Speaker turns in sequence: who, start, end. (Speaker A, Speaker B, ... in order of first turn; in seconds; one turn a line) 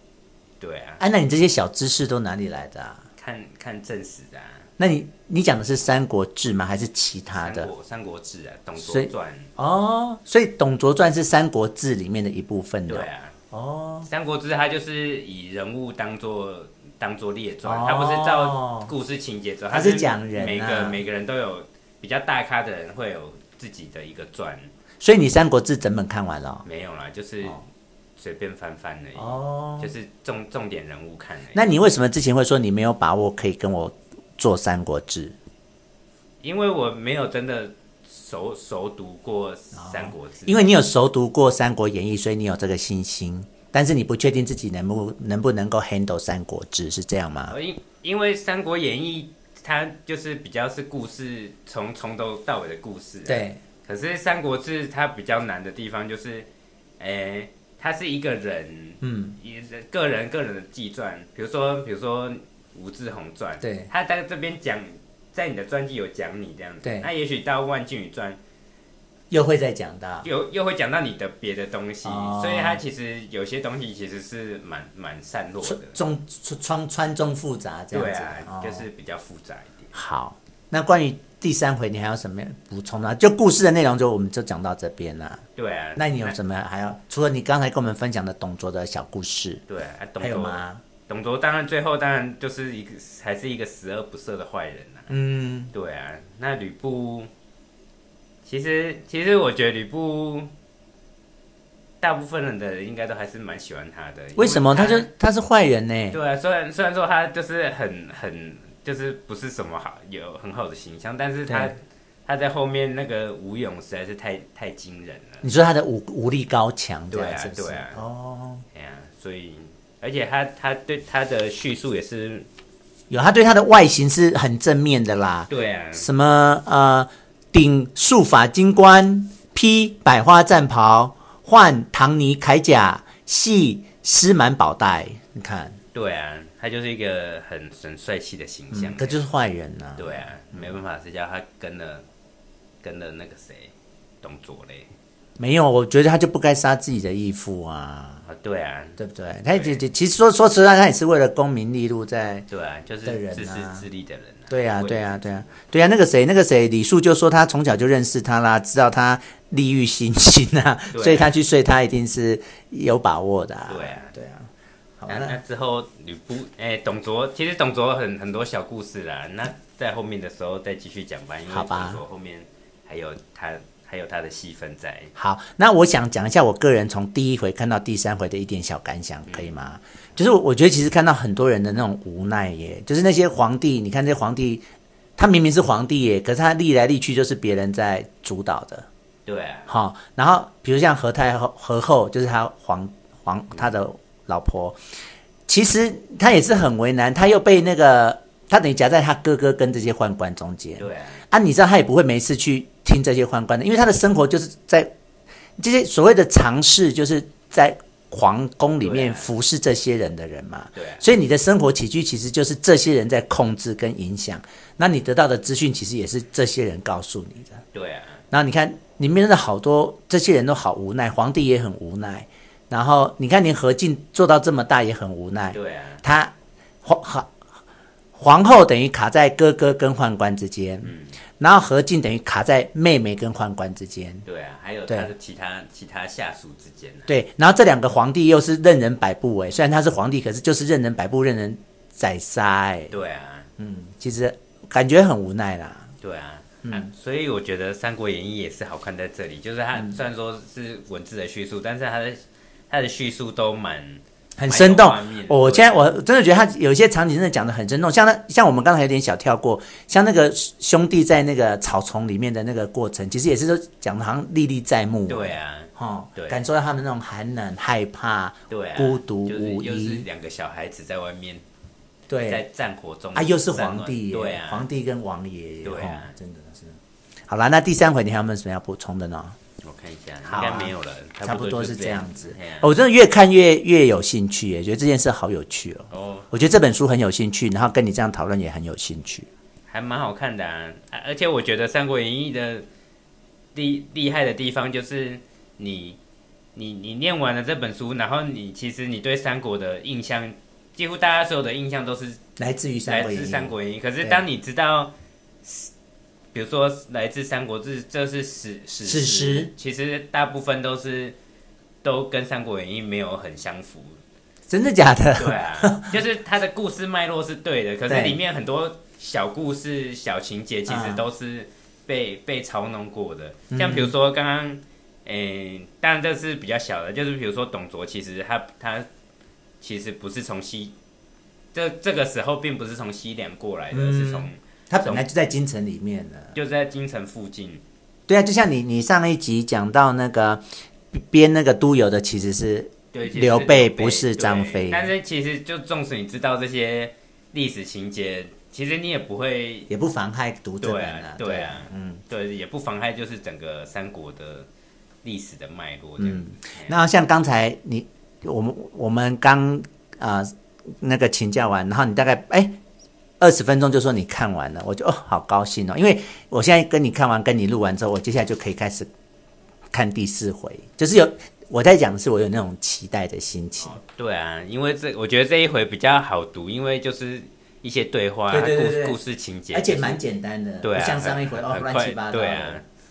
Speaker A: 0.6-1.0
Speaker B: 1.0-3.0
Speaker A: 3.2-4.7
Speaker B: 4.8-7.7
Speaker A: 7.3-9.5
Speaker B: 8.8-14.1
Speaker A: 12.9-13.3
Speaker A: 14.1-24.7
Speaker B: 17.6-18.9
Speaker B: 19.7-21.0
Speaker B: 25.0-26.6
Speaker A: 26.6-27.6
Speaker A: 28.2-31.6
Speaker B: 29.2-29.9
Speaker B: 31.5-35.4
Speaker A: 36.4-40.6
Speaker B: 39.7-47.5
Speaker A: 47.5-56.5
Speaker B: 53.3-53.6
Speaker A: 57.0-68.4
Speaker B: 59.0-59.4
Speaker B: 63.6-63.9
Speaker B: 66.8-67.1
Speaker B: 69.3-70.3
Speaker A: 70.2-76.0
Speaker B: 72.0-72.8
Speaker B: 75.6-78.9
Speaker A: 77.9-79.9
Speaker B: 79.9-85.4
Speaker A: 85.6-86.4
Speaker B: 86.0-89.6
Speaker A: 89.7-95.1
Speaker B: 90.2-90.8
Speaker B: 95.1-95.7
Speaker A: 95.7-97.3
Speaker A: 98.5-100.5
Speaker A: 102.0-105.1
Speaker B: 104.3-106.2
Speaker A: 106.1-115.5
Speaker B: 111.5-111.8
Speaker B: 115.4-118.6
Speaker A: 117.1-118.0
Speaker A: 118.7-122.5
Speaker B: 123.1-135.8
Speaker A: 125.5-126.1
Speaker A: 135.9-139.2
Speaker B: 138.7-140.8
Speaker A: 140.0-142.1
Speaker A: 142.8-144.9
Speaker B: 145.4-148.2
Speaker A: 148.3-149.0
Speaker B: 149.0-152.5
Speaker A: 149.5-149.8
Speaker A: 152.5-155.3
Speaker B: 153.1-153.8
Speaker B: 154.5-165.4
Speaker A: 160.9-161.3
Speaker A: 163.7-164.1
Speaker A: 165.1-175.1
Speaker B: 171.5-172.0
Speaker B: 175.2-184.7
Speaker A: 179.3-179.5
Speaker B: 185.2-188.9
Speaker A: 189.3-189.7
Speaker B: 189.7-194.8
Speaker B: 195.5-204.9
Speaker A: 200.8-201.2
Speaker B: 205.6-217.6
Speaker A: 208.8-209.3
Speaker A: 210.8-211.0
Speaker A: 217.7-218.2
Speaker B: 218.3-226.3
Speaker A: 225.5-226.0
Speaker B: 226.8-227.3
Speaker B: 228.2-234.2
Speaker A: 230.8-231.2
Speaker A: 234.3-237.1
Speaker B: 237.1-242.9
Speaker A: 242.9-243.5
Speaker B: 243.6-245.9
Speaker A: 246.0-255.8
Speaker B: 246.6-246.9
Speaker B: 254.4-270.1
Speaker A: 265.1-266.4
Speaker A: 268.5-271.4
Speaker B: 272.1-272.4
Speaker A: 272.3-274.7
Speaker B: 273.1-279.4
Speaker A: 275.6-276.1
Speaker A: 279.6-282.7
Speaker B: 280.3-289.3
Speaker A: 285.9-286.3
Speaker A: 289.7-292.6
Speaker A: 293.5-296.0
Speaker A: 296.6-302.2
Speaker B: 302.4-304.2
Speaker A: 302.9-304.9
Speaker A: 305.4-305.7
Speaker A: 306.3-311.2
Speaker B: 308.8-309.5
Speaker A: 311.8-314.0
Speaker B: 314.5-316.0
Speaker A: 315.2-328.9
Speaker B: 317.9-318.2
Speaker B: 320.7-321.0
Speaker B: 323.5-323.9
Speaker A: 329.6-330.7
Speaker A: 331.5-335.0
Speaker B: 333.7-336.3
Speaker A: 336.3-337.6
Speaker B: 338.1-344.9
Speaker A: 342.9-349.7
Speaker B: 349.7-352.0
Speaker A: 350.6-354.5
Speaker A: 355.0-356.8
Speaker B: 356.0-362.6
Speaker B: 363.2-368.9
Speaker B: 369.7-373.8
Speaker A: 373.6-380.0
Speaker B: 378.3-379.0
Speaker B: 379.5-382.6
Speaker A: 380.6-382.6